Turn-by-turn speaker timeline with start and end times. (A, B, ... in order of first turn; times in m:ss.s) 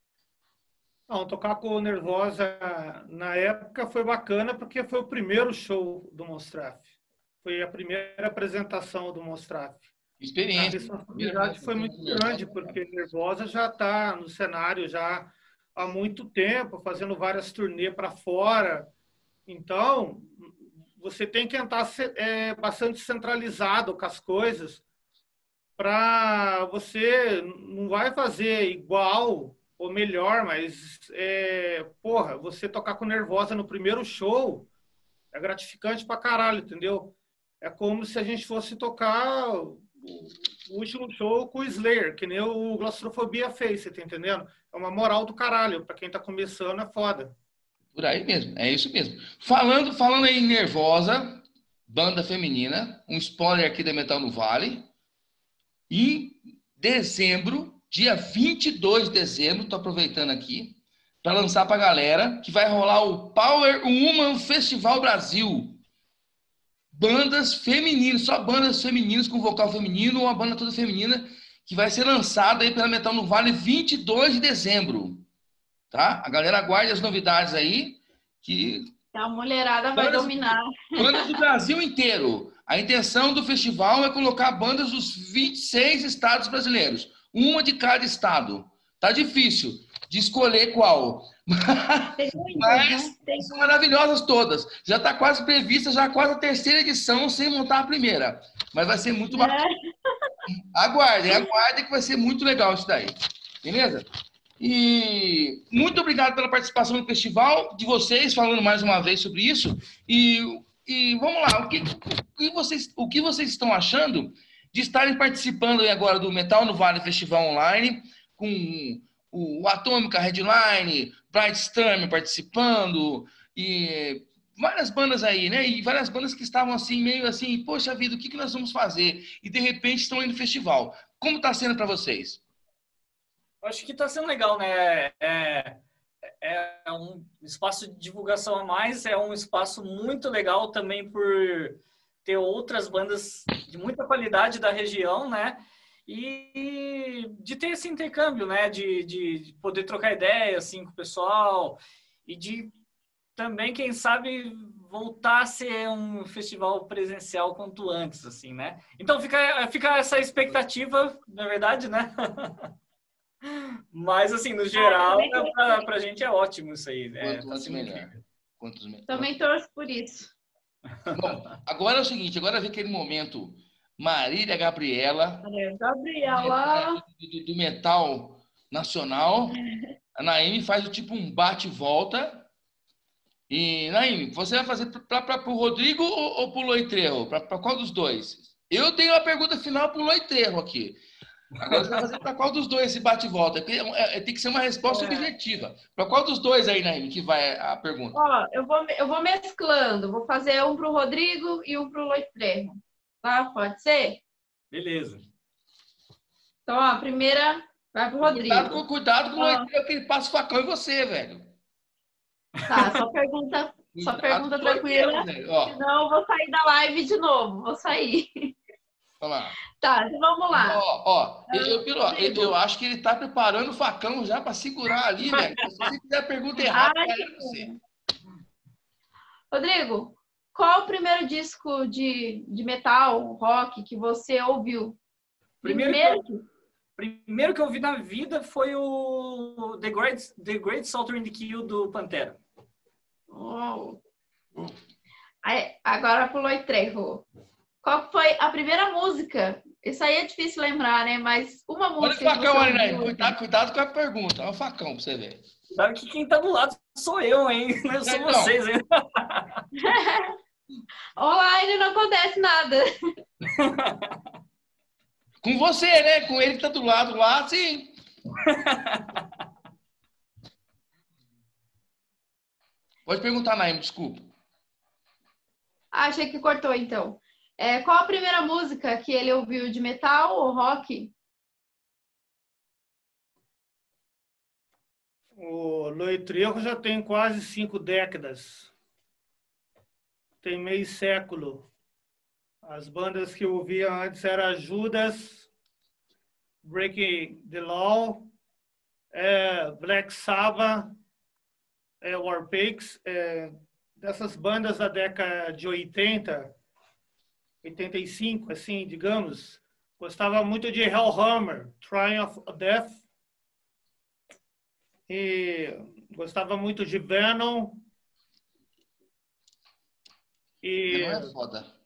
0:01.1-0:06.8 A
0:07.4-0:09.9 A
0:10.2-0:12.8 B
0:10.5-0:18.9 A
0:19.5-0:24.8 A
0:25.8-0:34.7 A
0:35.3-0:47.3 A
0:48.0-0:54.9 B
0:55.9-1:05.8 B
1:06.9-1:15.3 B
1:15.9-1:18.9 B
1:19.1-1:21.3 C
1:19.9-1:39.6 B
1:32.2-1:33.7 C
1:39.3-1:40.3 C
1:40.7-1:44.1 B
1:44.6-2:12.4 B
2:13.6-2:15.8 D
2:16.4-2:32.7 D
2:33.4-2:42.7 D
2:43.4-2:48.1 D
2:44.8-2:45.9 C
2:47.2-2:49.4 B
2:49.1-2:50.3 C
2:51.1-2:55.5 B
2:55.4-2:57.0 C
2:56.3-2:59.6 B
2:59.5-2:59.9 C
3:00.2-3:02.5 B
3:03.5-3:11.0 B
3:11.6-3:18.2 B
3:11.7-3:12.0 D
3:18.1-3:24.2 C
3:24.7-3:25.2 D
3:26.7-3:28.8 C
3:28.2-3:31.5 B
3:29.4-3:29.7 C
3:32.6-3:33.0 D
3:32.7-3:38.6 C
3:33.9-3:35.8 B
3:39.2-3:39.6 B
3:39.7-3:40.8 C
3:40.5-3:47.7 B
3:41.5-3:42.6 C
3:46.7-3:47.8 C
3:49.5-3:55.0 C
3:55.6-3:56.3 D
3:55.6-3:56.4 C
3:57.0-4:02.4 D
4:03.3-4:04.0 C
4:05.4-4:07.3 C
4:07.8-4:13.4 C
4:12.0-4:15.4 B
4:15.7-4:19.6 D
4:18.0-4:18.6 B
4:19.8-4:20.4 C
4:21.2-4:22.9 C
4:23.5-4:24.1 D
4:25.4-4:28.0 B
4:28.4-4:29.2 D
4:33.1-4:34.3 B
4:35.9-4:41.1 C
4:45.4-4:48.7 A
4:50.4-4:51.7 A
4:52.6-4:55.5 A
4:56.6-4:58.3 A
4:59.1-5:01.0 A
5:02.0-5:06.6 A
5:07.6-5:13.0 A
5:15.1-5:17.8 A
5:20.6-5:21.3 A
5:20.9-5:21.7 B